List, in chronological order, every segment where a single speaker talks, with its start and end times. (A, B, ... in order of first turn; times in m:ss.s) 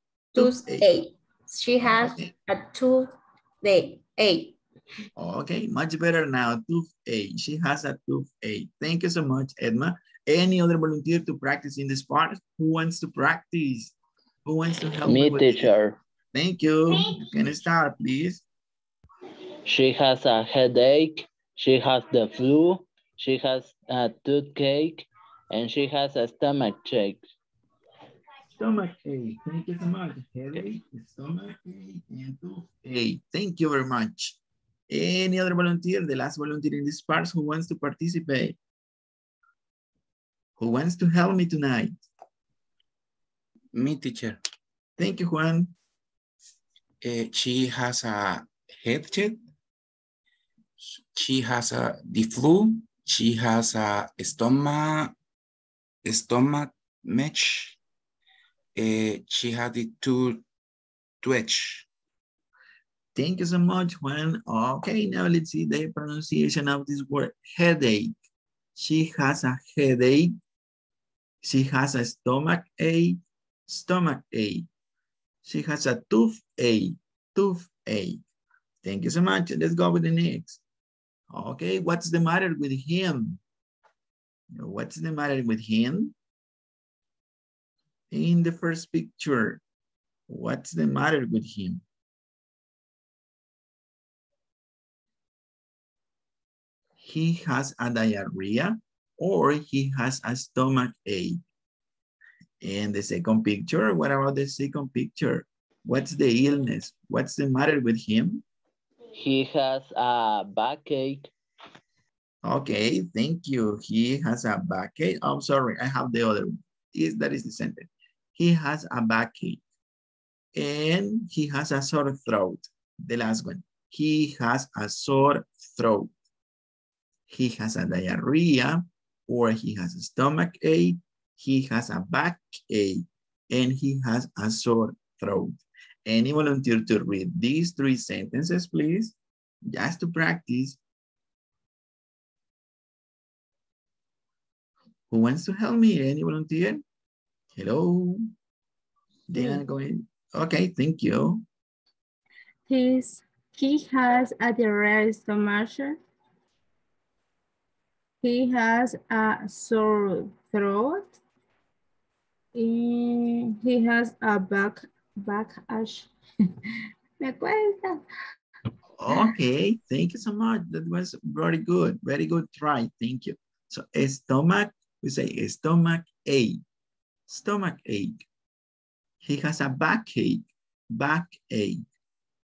0:00.4-0:00.9 A
0:00.4-0:03.1 B
0:01.8-0:02.3 A
0:03.6-0:04.6 B
0:05.2-0:13.9 A
0:14.4-0:15.7 A
0:15.1-0:16.0 C
0:16.3-0:18.4 A
0:19.7-0:27.2 C
0:28.6-0:34.4 A
0:34.9-0:38.6 A
0:40.6-0:42.0 A
0:43.7-0:44.4 D
0:45.0-0:45.7 A
0:47.0-0:49.4 D
0:50.8-0:55.1 D
0:56.0-0:57.8 D
0:58.8-1:00.4 D
1:01.2-1:01.9 D
1:03.2-1:08.1 A
1:08.8-1:10.4 A
1:11.4-1:14.7 A
1:15.4-1:18.2 A
1:18.8-1:20.6 A
1:21.3-1:23.4 A
1:24.5-1:26.2 A
1:28.1-1:29.6 A
1:30.3-1:31.8 A
1:37.0-1:41.4 A
1:42.6-1:48.4 A
1:49.2-1:51.3 C
1:52.4-1:59.6 A
2:00.6-2:06.1 A
2:07.3-2:19.2 A
2:19.7-2:20.8 A
2:25.1-2:26.8 A
2:27.6-2:28.2 A
2:29.3-2:31.4 A
2:29.4-2:29.6 E
2:32.7-2:36.0 E
2:38.2-2:41.2 E
2:42.5-2:46.1 E
2:47.2-2:48.0 E
2:49.0-2:56.6 A
2:57.3-2:58.2 A
2:59.2-3:01.8 A